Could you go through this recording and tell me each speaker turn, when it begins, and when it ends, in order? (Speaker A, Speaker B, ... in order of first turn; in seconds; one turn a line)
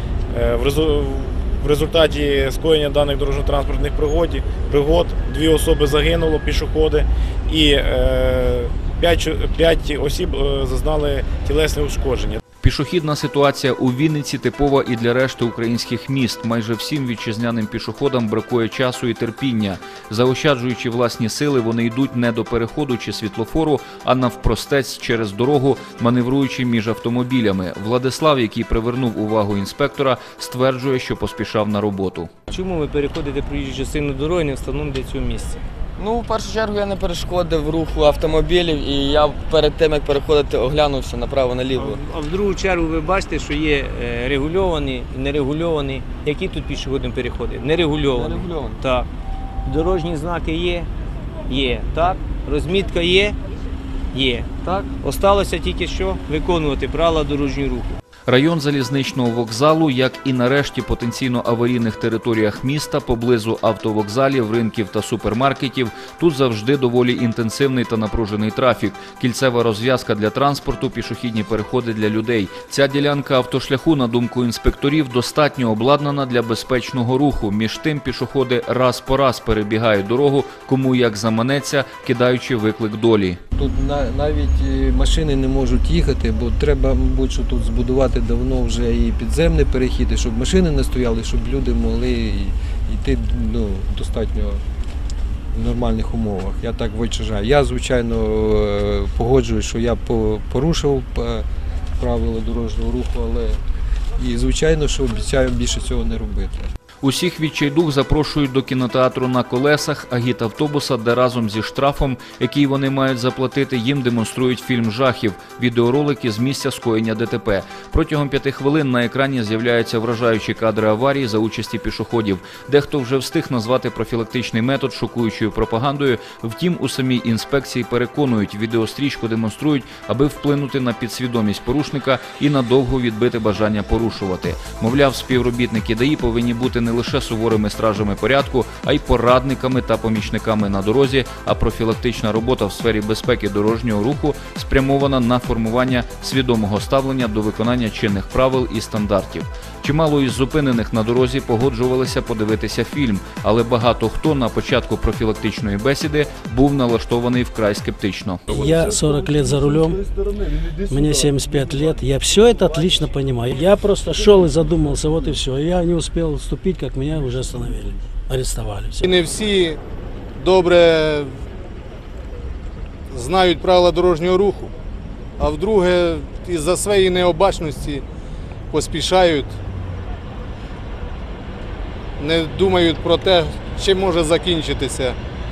Speaker A: 0.3-12.4
Speaker B: 12.6-32.3
Speaker C: 32.5-35.6
Speaker D: 36.0-42.0
Speaker C: 41.8-49.1
Speaker D: 48.0-48.8
Speaker C: 49.6-50.9
Speaker C: 51.5-53.4
Speaker C: 54.1-58.0
Speaker D: 54.6-54.9
Speaker B: 58.3-83.4
Speaker E: 83.5-94.6
Speaker E: 95.5-101.4
Speaker E: 102.0-103.6
Speaker E: 104.2-106.7
Speaker B: 107.0-158.4
Speaker F: 158.5-160.0
Speaker F: 160.9-169.1
Speaker G: 169.0-169.8
Speaker G: 170.4-171.3
Speaker G: 173.1-174.7
Speaker G: 175.4-178.0
Speaker G: 178.7-179.6
Speaker G: 182.2-185.2